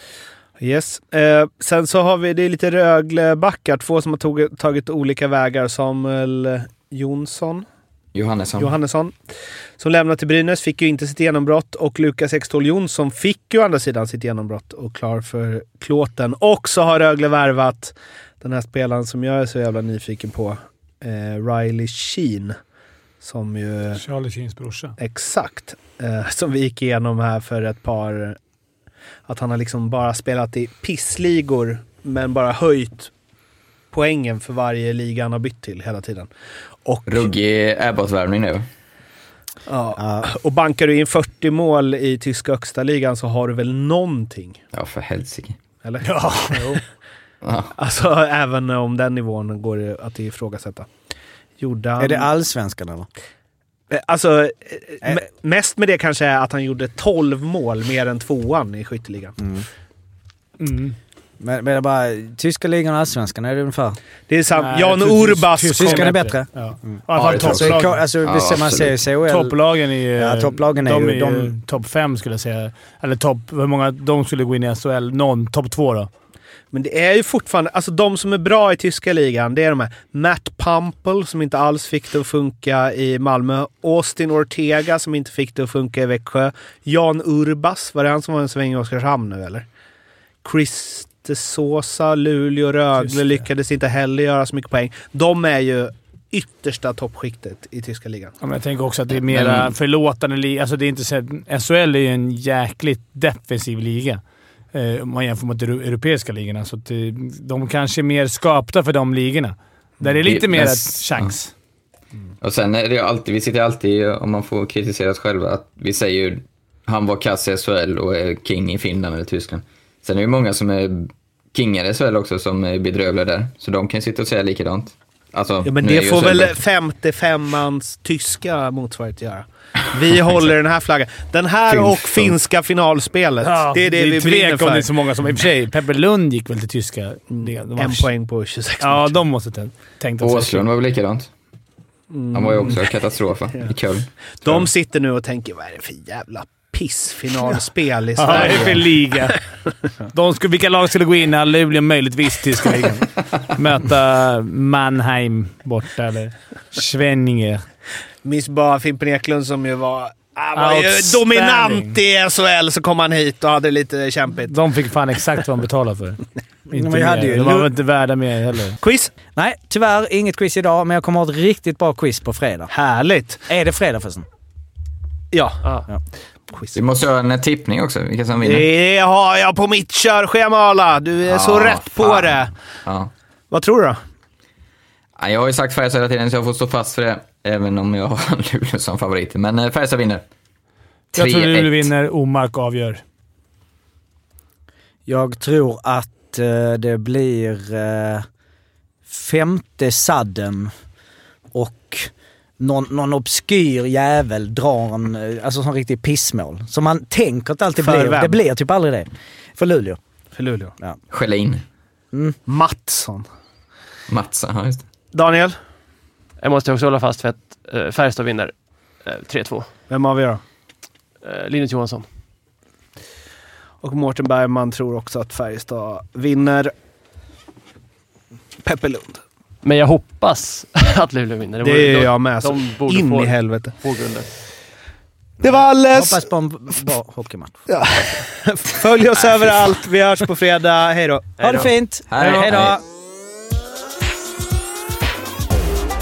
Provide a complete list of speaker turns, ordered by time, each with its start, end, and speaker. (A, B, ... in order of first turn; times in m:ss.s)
0:00.6-0:07.6 A
0:08.1-0:08.7 B
0:08.6-0:09.2 A
0:09.8-0:22.5 A
0:23.2-0:24.0 A
0:24.0-0:25.0 C
0:25.0-0:28.4 A
0:29.3-0:33.1 A
0:33.9-0:36.3 A
0:36.8-0:37.2 A
0:37.1-0:38.6 B
0:39.7-0:44.6 A
0:40.0-0:40.3 D
0:44.7-0:45.6 B
0:45.8-0:46.8 A
0:46.0-0:46.8 C
0:47.4-0:47.7 B
0:47.8-0:50.9 A
0:51.6-0:52.3 A
0:52.0-0:53.1 D
0:53.9-0:59.4 A
0:59.4-0:59.6 D
1:00.6-1:01.0 C
1:01.4-1:04.0 D
1:04.3-1:06.2 A
1:04.5-1:08.0 C
1:05.7-1:09.6 D
1:07.2-1:09.0 B
1:09.3-1:16.1 C
1:10.1-1:11.5 D
1:16.7-1:29.6 A
1:30.4-1:38.3 A
1:33.0-1:33.4 C
1:38.4-1:44.2 C
1:39.3-1:39.7 B
1:44.7-1:51.5 C
1:50.2-1:51.3 B
1:52.4-2:06.6 B
2:05.6-2:14.9 A
2:11.7-2:12.4 B
2:13.4-2:18.1 C
2:17.3-2:19.2 A
2:18.8-2:20.6 C
2:20.2-2:21.3 B
2:22.1-2:22.9 A
2:22.3-2:24.7 B
2:24.3-2:29.0 A
2:28.2-2:29.4 C
2:30.1-2:37.6 C
2:38.2-2:44.6 A
2:40.5-2:42.0 C
2:44.5-2:48.8 C
2:46.7-2:47.7 D
2:48.8-2:49.1 A
2:49.4-2:52.7 D
2:52.7-2:53.4 A
2:53.5-2:54.2 D
2:55.3-2:55.6 A
2:56.5-2:56.8 A
2:56.7-2:58.7 B
2:58.4-3:02.5 A
3:01.2-3:03.1 B
3:03.5-3:04.0 A
3:05.2-3:10.2 B
3:11.1-3:13.0 C
3:11.2-3:11.9 B
3:15.0-3:18.2 D
3:19.1-3:20.7 D
3:21.5-3:30.0 D
3:27.8-3:28.4 A
3:30.3-3:30.7 A
3:31.1-3:31.6 B
3:32.1-3:32.4 D
3:32.5-3:33.2 A
3:34.1-3:34.8 B
3:35.1-3:35.6 A
3:36.4-3:39.7 E
3:39.9-3:40.4 A
3:41.2-3:42.0 E
3:43.8-3:46.7 A
3:48.6-3:49.2 A
3:49.6-3:54.3 E
3:51.6-3:53.7 A
3:55.4-3:56.2 A
3:55.5-3:57.6 D
3:57.7-4:01.3 A
4:01.4-4:01.7 E
4:01.4-4:02.8 D
4:02.1-4:02.8 B